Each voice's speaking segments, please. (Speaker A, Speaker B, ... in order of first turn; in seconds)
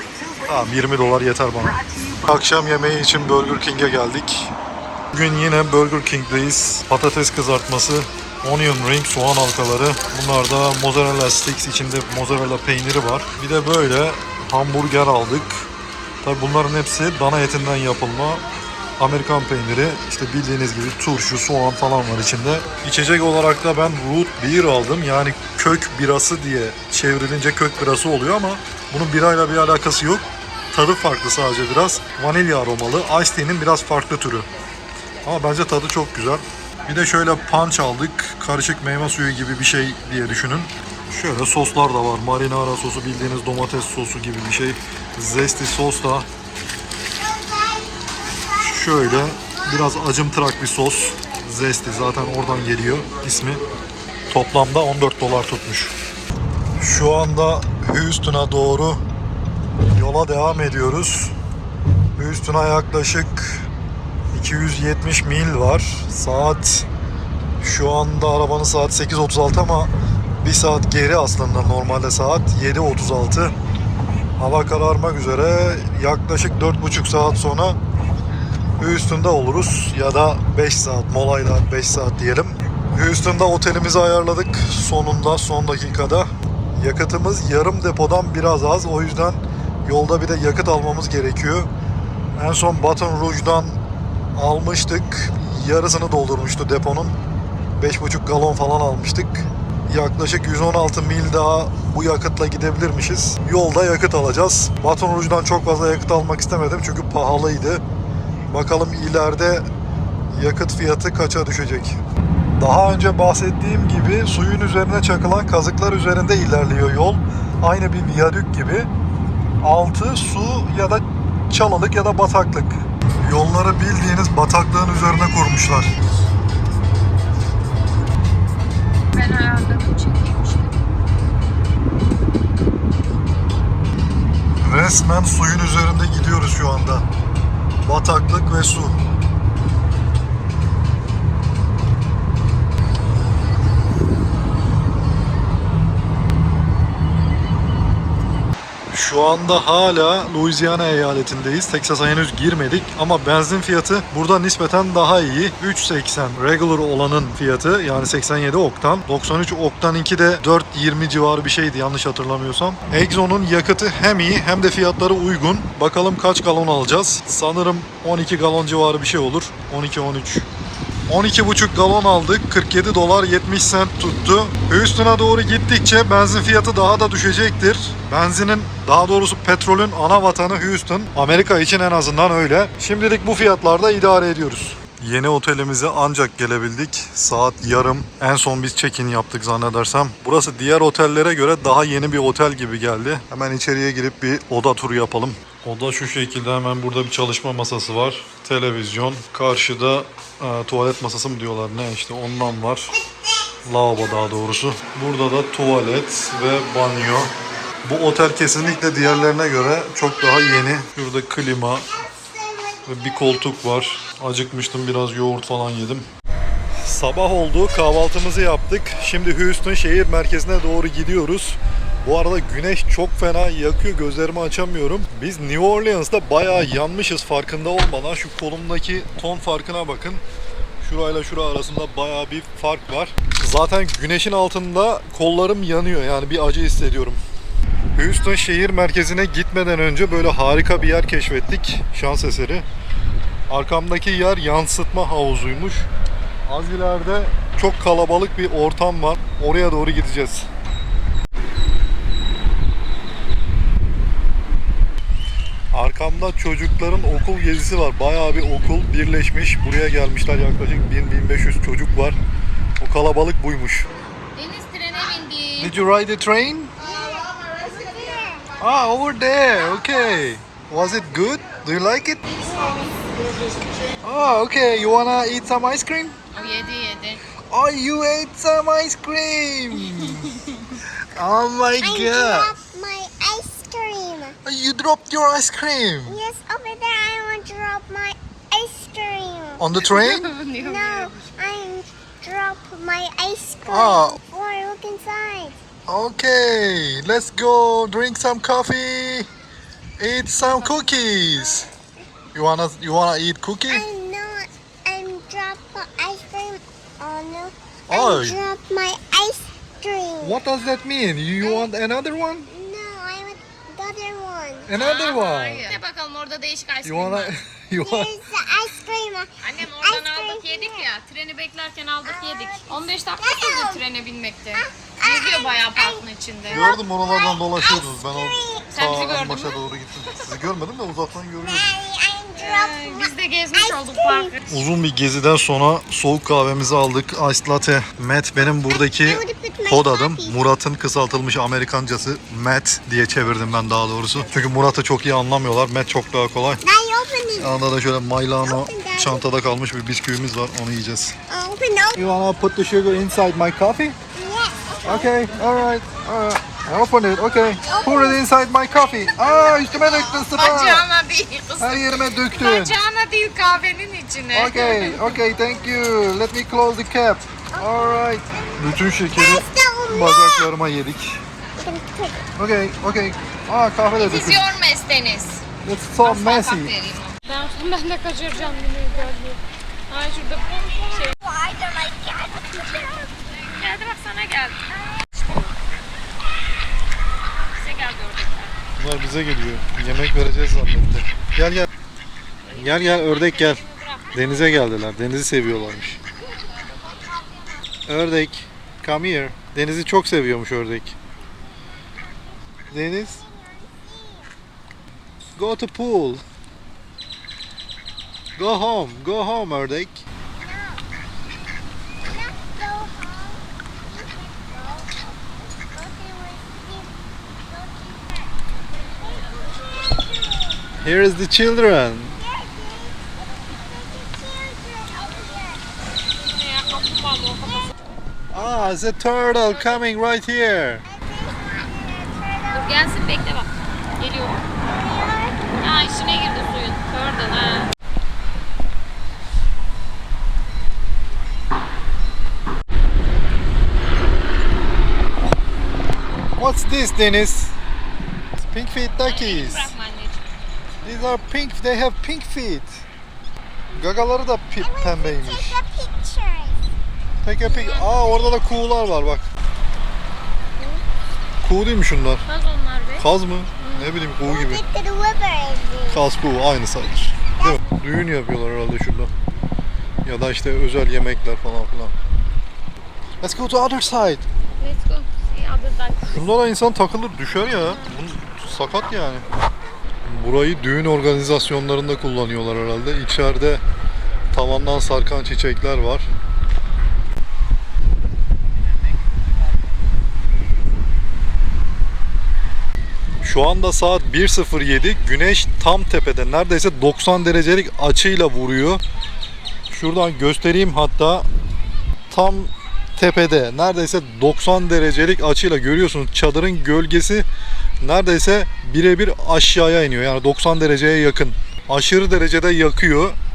Speaker A: 0.4-4.5, 5.1-15.7, 16.2-18.4, 19.0-34.5, 35.2-46.3, 48.6-53.6, 54.3-55.9, 56.8-59.0, 59.9-61.3, 62.1-63.6, 64.3-66.8, 67.6-73.5, 74.4-77.8, 78.8-91.7, 92.3-93.8, 94.3-97.2, 97.8-107.8, 108.5-109.7, 110.3-112.0, 112.5-118.9, 119.6-125.9, 134.6-137.0, 137.8-139.0, 148.9-170.5, 171.1-202.9, 203.6-207.3, 207.8-211.9, 212.8-216.1, 216.8-230.2, 230.8-237.2, 237.9-242.7, 243.5-245.9, 246.5-250.4, 255.7-262.2, 262.8-263.9, 265.6-266.7, 268.6-272.4, 274.0-276.1, 277.5-280.3, 281.1-282.5, 284.4-286.2, 289.6-290.3, 293.7-294.2, 295.9-299.3, 300.0-301.7, 302.3-303.8, 307.9-308.4, 310.2-312.5, 314.7-315.7, 316.8-318.1, 326.5-331.8, 334.5-346.6, 347.4-351.2, 351.9-354.0, 354.8-360.9, 361.6-362.8, 364.3-371.2, 372.4-374.5, 375.6-376.7, 388.8-391.7, 392.5-393.6, 394.1-396.0, 397.9-400.9, 402.7-403.2, 405.4-406.2, 408.4-410.0, 420.8-422.2, 428.3-430.8, 446.4-447.5, 448.4-449.7, 450.8-452.8, 453.7-455.6, 457.2-459.2, 461.4-462.2, 463.0-464.6, 465.9-469.1, 470.0-471.9, 473.2-474.2, 476.1-479.2, 480.1-483.6, 484.3-486.1, 493.2-498.8, 499.7-501.2, 502.1-507.2, 507.8-513.1
Speaker B: 47.2-49.6, 212.0-213.2, 266.8-268.5, 272.5-272.9, 281.8-284.4, 286.1-289.7, 290.5-295.6, 303.7-310.4, 311.4-311.7, 312.5-314.7, 317.8-320.9, 322.0-323.8, 324.6-326.0, 326.6-328.7, 331.4-334.3, 338.7-340.3, 346.6-347.6, 348.4-349.3, 351.3-352.0, 354.1-355.2, 357.6-358.2, 358.9-360.1, 367.5-370.5, 371.6-372.2, 380.9-383.1, 396.6-397.6, 402.0-404.3, 410.3-410.8, 412.0-418.4, 419.0-420.6, 422.2-425.7, 430.8-432.9, 434.6-435.5, 454.6-456.6, 464.2-466.1
Speaker C: 129.1-130.8, 264.3-265.7, 276.3-277.2, 289.8-291.2, 314.7-317.3, 319.4-326.7, 328.7-329.6, 332.4-334.6, 360.2-365.1, 374.0-375.4, 376.0-381.1, 383.5-384.7, 387.5-388.5, 392.5-394.6, 426.2-427.7, 432.5-433.5, 434.0-434.4, 435.6-437.7, 449.0-450.3, 457.5-458.1, 462.2-463.0, 463.6-463.9, 474.6-476.3